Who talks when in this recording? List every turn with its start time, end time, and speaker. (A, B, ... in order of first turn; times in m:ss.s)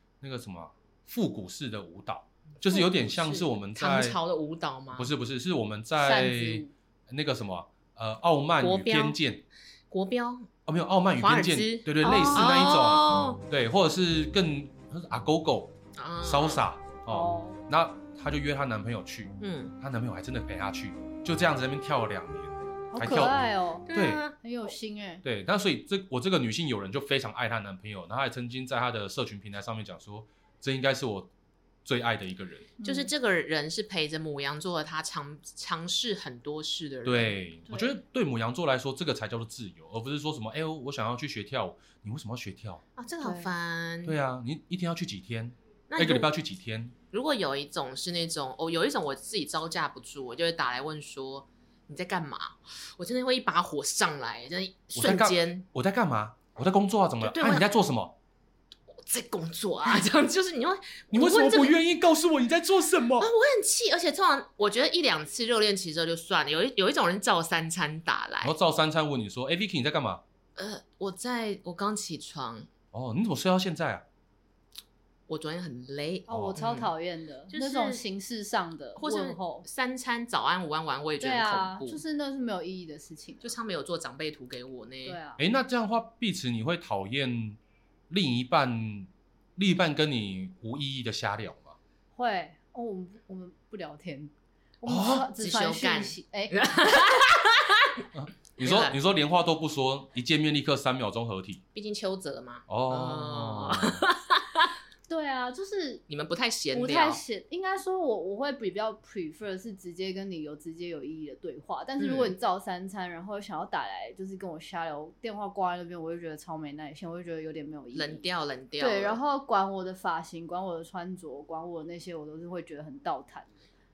0:00.2-0:04.2 A
0:02.6-0:05.1 B
0:04.9-0:09.4 A
0:06.0-0:06.7 C
0:08.6-0:09.2 B
0:09.9-0:10.5 B
0:10.7-0:23.4 A
0:11.2-0:13.4 B
0:16.0-0:16.6 B
0:17.1-0:17.6 C
0:19.4-0:19.7 B
0:22.9-0:25.2 C
0:23.9-0:24.3 B
0:23.9-0:24.2 A
0:25.2-0:31.3 A
0:31.8-0:32.7 A
0:32.8-0:33.1 C
0:32.8-0:37.4 B
0:37.0-0:42.8 A
0:43.0-0:44.2 B
0:43.2-0:43.5 C
0:44.0-0:46.9 A
0:45.9-0:46.3 B
0:47.1-0:55.6 B
0:55.0-0:58.1 A
0:57.2-0:57.7 B
0:58.9-1:01.7 B
1:01.1-1:03.3 A
1:03.2-1:08.5 B
1:08.4-1:10.2 A
1:10.6-1:12.7 B
1:12.9-1:14.0 A
1:15.3-1:16.9 B
1:16.3-1:19.6 C
1:16.3-1:16.6 A
1:17.5-1:18.0 B
1:19.0-1:22.0 B
1:21.2-1:23.5 C
1:23.4-1:25.2 B
1:25.0-1:25.4 C
1:25.4-1:27.6 A
1:28.1-1:31.8 A
1:32.2-1:36.9 C
1:34.8-1:35.3 A
1:35.3-1:38.1 B
1:38.1-1:41.6 A
1:38.6-1:39.0 B
1:41.7-1:44.7 B
1:42.7-1:44.0 A
1:45.1-1:46.0 C
1:46.1-1:47.2 B
1:46.7-1:58.2 C
1:52.0-1:52.3 B
1:57.9-1:59.2 B
1:58.8-2:03.6 C